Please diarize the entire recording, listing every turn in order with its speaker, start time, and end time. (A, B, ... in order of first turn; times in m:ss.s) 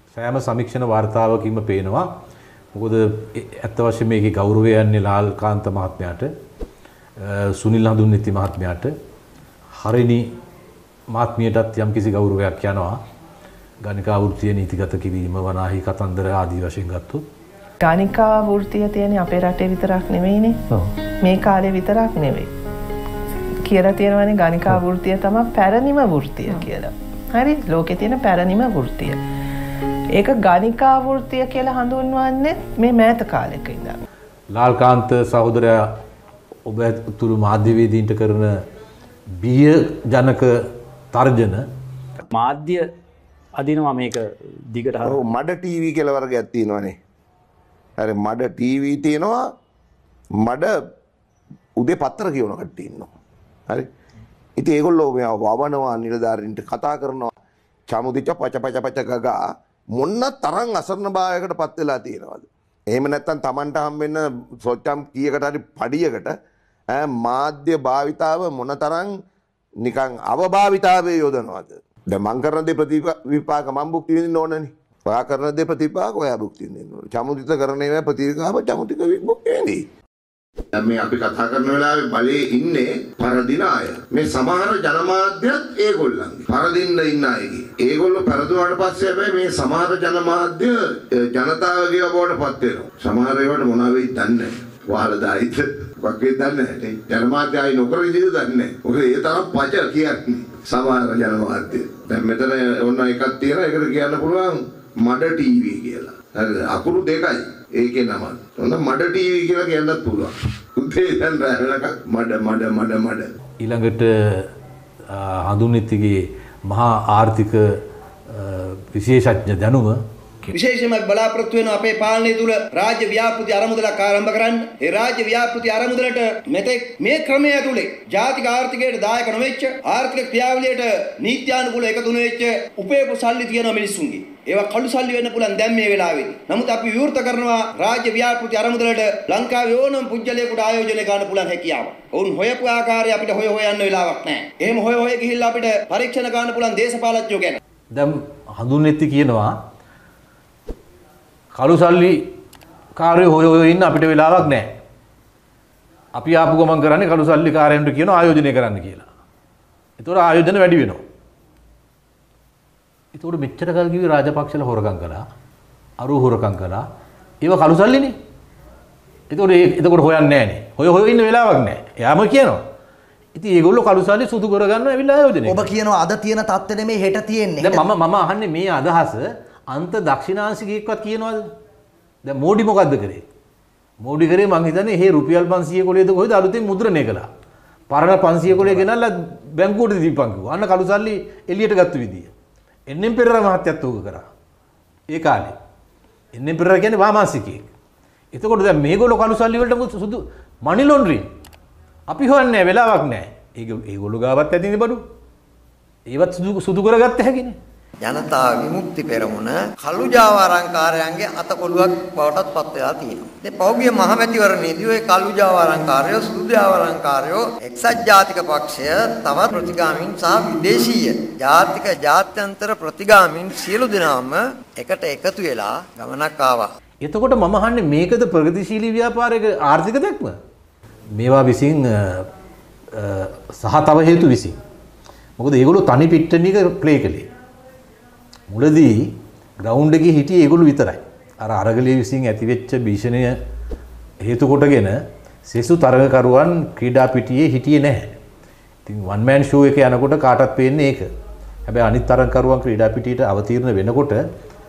0:00.1-0:02.1 A
0:02.7-0:06.3 A
0:07.2-0:08.9 A
0:09.8-0:10.3 A
0:11.1-0:13.0 A
0:13.8-0:17.2 A
0:17.8-0:22.5 B
0:23.6-0:29.2 B
0:30.1-0:34.0 B
0:34.5-0:35.9 A
0:36.7-0:38.5 A
0:39.4-0:40.5 A
0:41.1-0:41.6 A
0:42.3-0:42.8 C
0:43.6-0:45.2 C
0:45.0-0:47.0 D
0:48.0-0:49.4 D
0:50.4-0:50.7 D
0:51.8-0:53.1 D
0:54.6-0:57.3 D
0:57.9-0:59.4 D
1:00.0-1:06.3 D
1:06.9-1:09.1 D
1:09.8-1:19.8 D
1:20.7-1:53.3 D
1:53.6-1:54.5 A
1:55.1-1:57.6 A
1:58.3-2:00.0 A
2:00.5-2:27.6 E
2:27.9-2:29.6 A
2:31.5-2:32.2 A
2:33.0-2:34.7 A
2:36.1-2:39.1 A
2:40.0-2:41.0 A
2:43.1-2:45.2 A
2:46.0-2:46.9 A
2:47.4-2:48.2 A
2:49.3-2:52.6 A
2:53.3-2:55.7 A
2:55.4-2:57.8 F
2:57.6-3:01.5 A
3:02.2-3:03.2 A
3:04.0-3:07.3 A
3:07.9-3:12.3 A
3:12.9-3:14.3 A
3:15.1-3:15.5 A
3:16.3-3:17.6 A
3:18.3-3:21.3 A
3:22.1-3:25.0 A
3:26.1-3:27.6 A
3:28.0-3:46.7 G
3:47.0-3:50.4 A
3:51.1-3:52.3 A
3:52.9-3:54.6 A
3:55.4-3:57.3 A
3:58.5-4:03.4 A
4:04.2-4:08.1 A
4:08.8-4:11.1 A
4:11.6-4:14.2 A